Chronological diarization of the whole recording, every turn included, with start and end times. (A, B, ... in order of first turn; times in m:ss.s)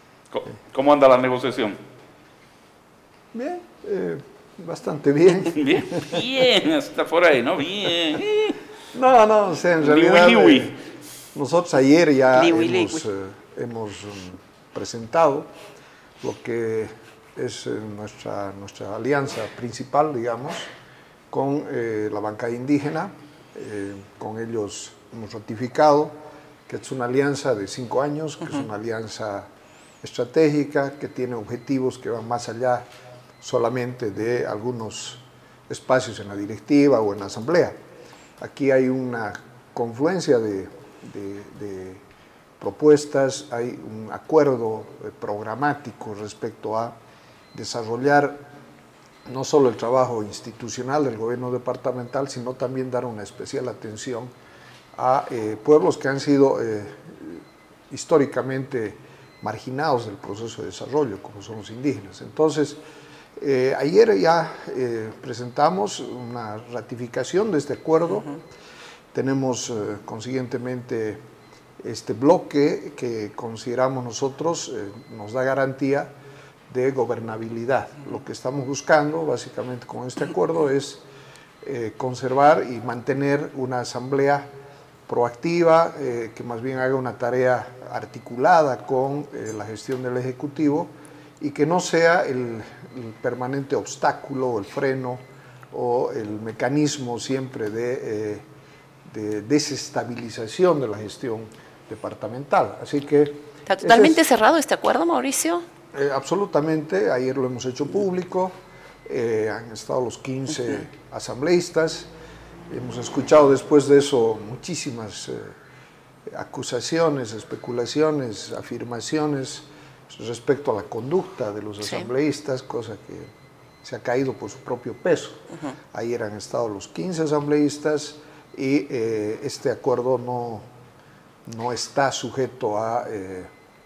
0:00.3-0:01.8 A
0:03.3-0:06.3 B
0:05.4-0:08.6 A
0:08.9-0:10.8 B
0:09.8-0:10.8 A
0:11.3-0:15.5 B
0:12.3-0:13.0 C
0:16.2-0:20.7 B
0:21.3-0:26.1 B
0:26.7-0:29.5 B
0:30.0-0:32.9 B
0:33.4-0:37.8 B
0:38.4-0:42.0 B
0:42.6-0:46.9 B
0:47.5-0:48.4 B
0:49.2-0:54.3 B
0:54.9-1:02.8 B
1:03.4-1:08.3 B
1:09.1-1:11.2 B
1:11.8-1:16.1 B
1:16.7-1:21.0 B
1:21.6-1:24.5 B
1:25.1-1:38.4 B
1:39.0-1:44.2 B
1:43.6-1:45.6 C
1:45.9-1:48.5 B
1:49.0-1:52.1 B
1:52.7-1:55.6 B
1:56.3-2:03.3 B
2:03.8-2:10.7 B
2:11.4-2:13.5 B